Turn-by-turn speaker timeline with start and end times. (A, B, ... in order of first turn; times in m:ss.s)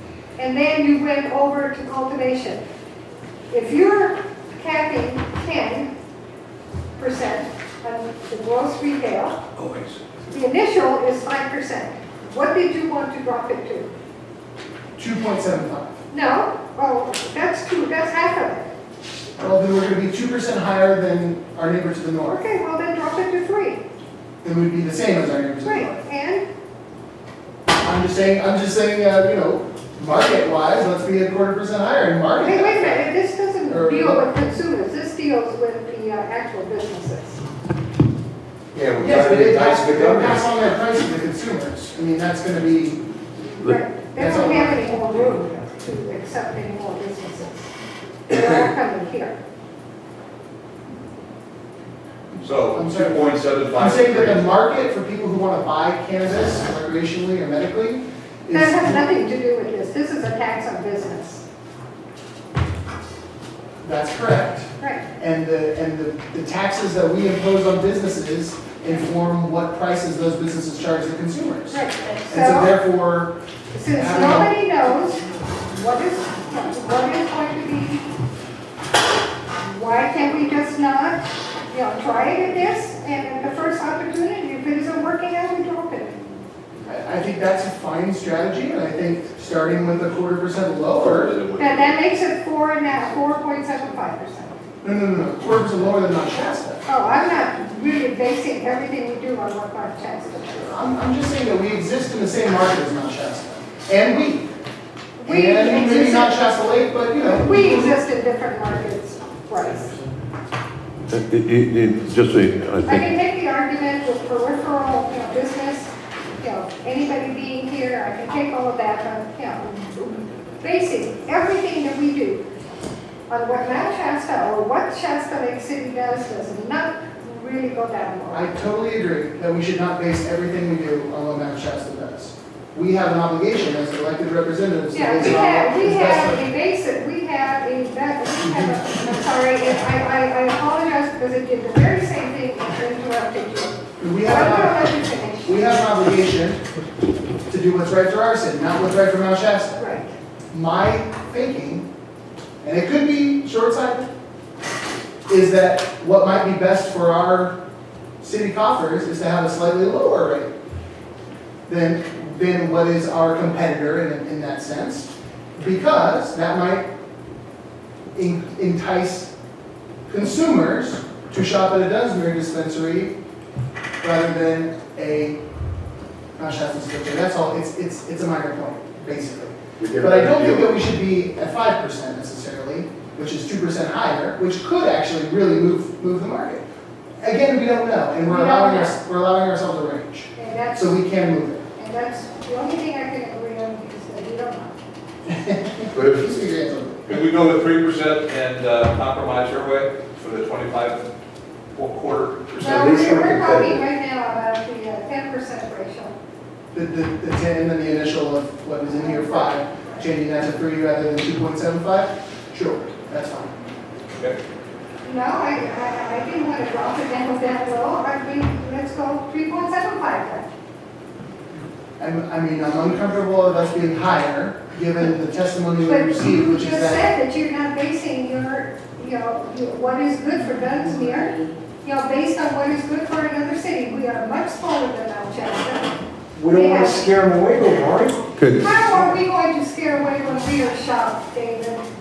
0:00.4-0:02.6 A
0:03.5-0:05.9 A
0:07.0-0:09.4 A
0:09.6-0:10.0 B
0:10.3-0:13.9 A
0:15.0-0:15.9 C
0:16.1-0:18.7 A
0:19.4-0:22.4 C
0:22.3-0:23.8 A
0:24.4-0:26.0 C
0:25.6-0:26.5 A
0:27.8-0:33.1 C
0:32.4-0:37.4 A
0:33.7-0:34.3 C
0:38.7-0:40.5 D
0:39.0-0:43.0 C
0:43.6-0:47.7 A
0:44.2-0:45.1 C
0:48.3-0:49.4 A
0:52.4-0:54.5 B
0:52.7-0:59.1 C
0:58.5-1:01.4 A
1:03.8-1:13.4 C
1:04.8-1:05.1 A
1:11.7-1:12.7 A
1:13.7-1:18.1 A
1:13.9-1:14.5 C
1:19.6-1:26.2 A
1:26.8-1:31.4 C
1:31.6-1:34.6 A
1:34.8-1:36.8 C
1:36.9-1:40.8 A
1:40.7-1:44.5 C
1:45.2-1:46.5 A
1:45.2-1:48.0 C
1:47.2-1:49.9 A
1:51.1-1:53.1 E
1:52.8-2:02.4 A
2:03.3-2:08.5 A
2:08.3-2:16.4 C
2:14.9-2:25.6 A
2:18.4-2:19.0 C
2:24.0-2:26.6 C
2:27.5-2:29.8 C
2:29.8-2:30.1 A
2:30.5-2:31.9 C
2:32.6-2:34.1 C
2:35.3-2:37.6 C
2:38.2-2:40.5 C
2:41.7-2:46.9 C
2:48.2-2:49.3 C
2:50.1-2:53.2 C
2:54.0-2:55.4 C
2:56.4-3:06.6 C
2:59.8-3:00.8 D
3:07.2-3:11.6 C
3:08.3-3:09.0 A
3:10.4-3:11.0 A
3:11.8-3:14.8 A
3:15.3-3:17.1 C
3:16.0-3:16.2 D
3:17.1-3:21.0 B
3:21.8-3:22.8 B
3:22.6-3:23.8 D
3:22.6-3:26.2 A
3:26.7-3:33.5 C
3:28.9-3:30.0 A
3:35.0-3:40.5 A
3:42.0-3:47.1 C
3:45.8-3:55.9 A
3:56.4-3:58.5 D
3:56.5-3:57.1 A
3:58.4-3:58.7 E
3:58.6-4:01.8 A